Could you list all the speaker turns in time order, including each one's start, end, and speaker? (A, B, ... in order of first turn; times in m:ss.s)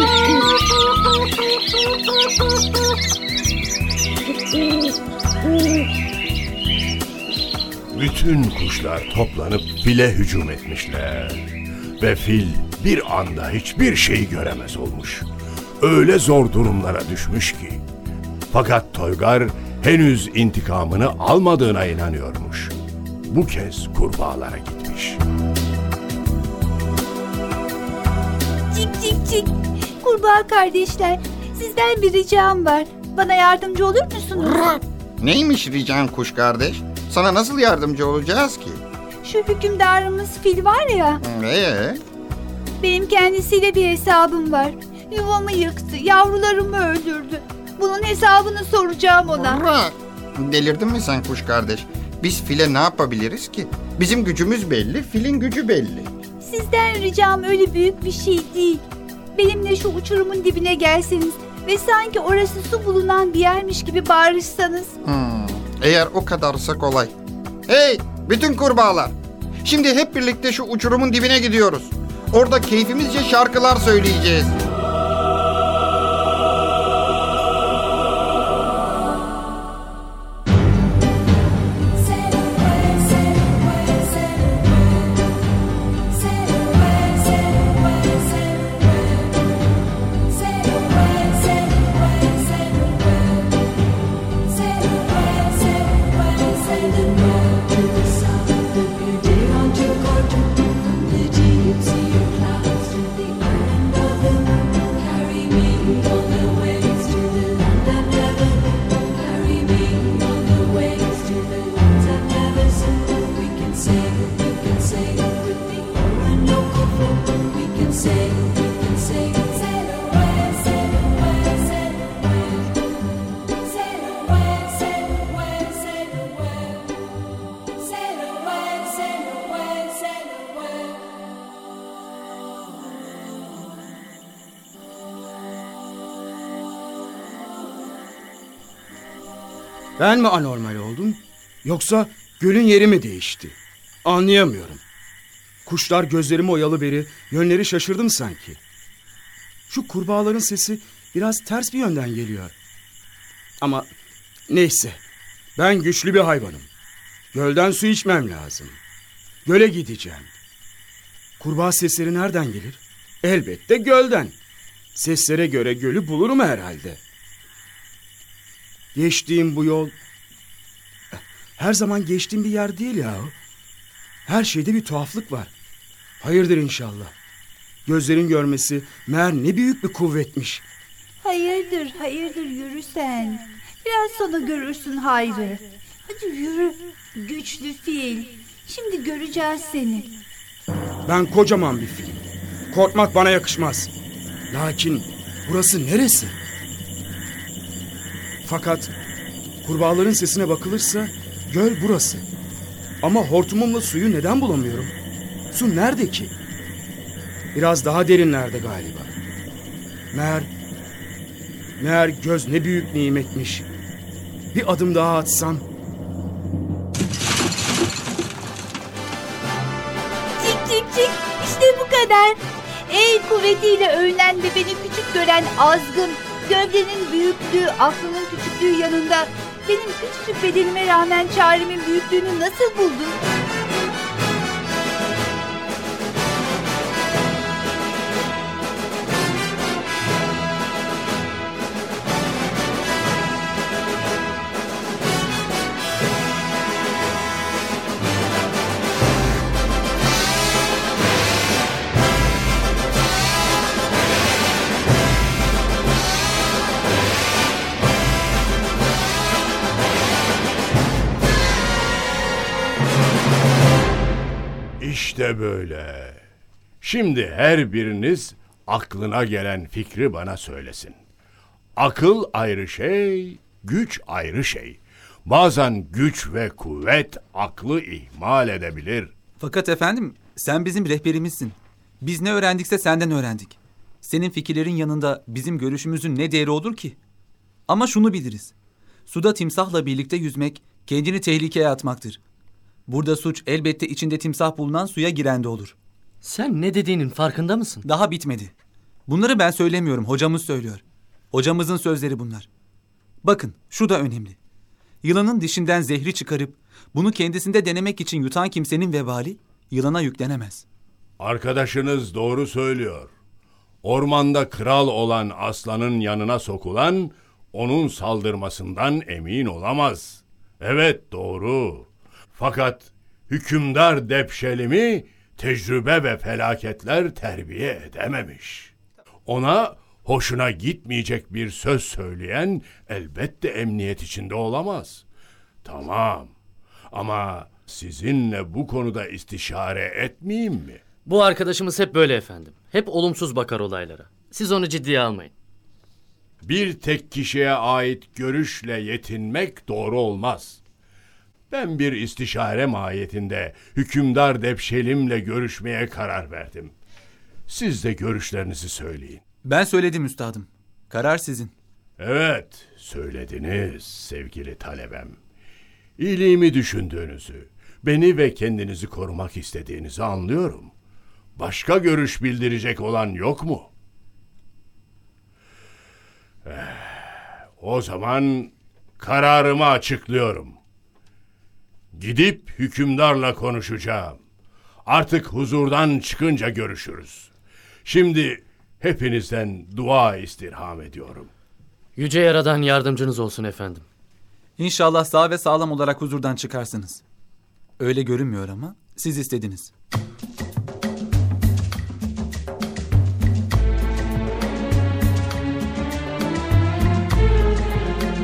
0:07.9-0:11.5 A
0:12.0-0:15.3 A
0:15.8-0:17.8 A
0:18.5-0:22.7 A
0:23.3-0:25.2 A
0:28.7-0:34.7 B
0:34.6-0:38.8 C
0:39.2-0:41.2 B
0:41.2-0:42.0 C
0:42.8-0:49.6 B
0:49.4-0:56.1 C
0:56.4-1:04.9 B
1:05.0-1:07.1 C
1:07.7-1:14.6 C
2:20.0-2:24.8 D
2:25.6-2:28.6 D
2:29.7-2:32.5 D
2:33.6-2:33.9 D
2:34.5-2:35.0 D
2:35.6-2:36.7 D
2:37.3-2:38.8 D
2:39.4-2:40.3 D
2:41.4-2:44.3 D
2:44.9-2:47.0 D
2:48.9-2:49.9 D
2:51.1-2:53.3 D
2:54.2-2:55.5 D
2:56.2-2:57.1 D
2:57.8-3:00.6 D
3:01.2-3:10.2 B
3:11.0-3:13.9 D
3:14.5-3:16.4 D
3:18.4-3:18.9 D
3:19.6-3:22.2 D
3:23.0-3:24.9 D
3:25.5-3:26.3 D
3:27.5-3:29.1 D
3:30.1-3:30.5 D
3:31.8-3:33.7 D
3:34.5-3:35.6 D
3:40.4-3:53.2 B
4:24.8-4:26.2 A
4:26.8-4:31.0 A
4:31.8-4:39.1 A
4:39.4-4:47.0 E
4:47.7-4:48.5 E
4:49.1-4:52.2 E
4:52.9-4:55.7 E
4:56.2-4:57.8 F
4:57.8-4:58.5 E
4:59.1-5:00.8 E
5:01.3-5:02.5 E
5:03.2-5:04.4 E
5:05.0-5:10.6 E
5:11.2-5:13.1 A
5:13.8-5:28.7 A
5:29.3-5:35.0 A
5:35.6-5:36.3 A
5:36.9-5:40.8 A
5:41.0-5:45.3 F
5:46.4-5:50.6 A
5:51.5-5:56.7 A
5:57.5-5:59.2 A
5:59.4-6:01.5 E
6:02.0-6:05.2 A
6:06.0-6:10.7 A
6:11.4-6:13.7 A
6:16.4-6:20.6 A
6:21.9-6:24.2 A
6:24.8-6:27.3 A
6:27.8-6:31.3 A
6:32.0-6:33.8 F
6:34.6-6:37.0 E
6:37.8-6:39.7 E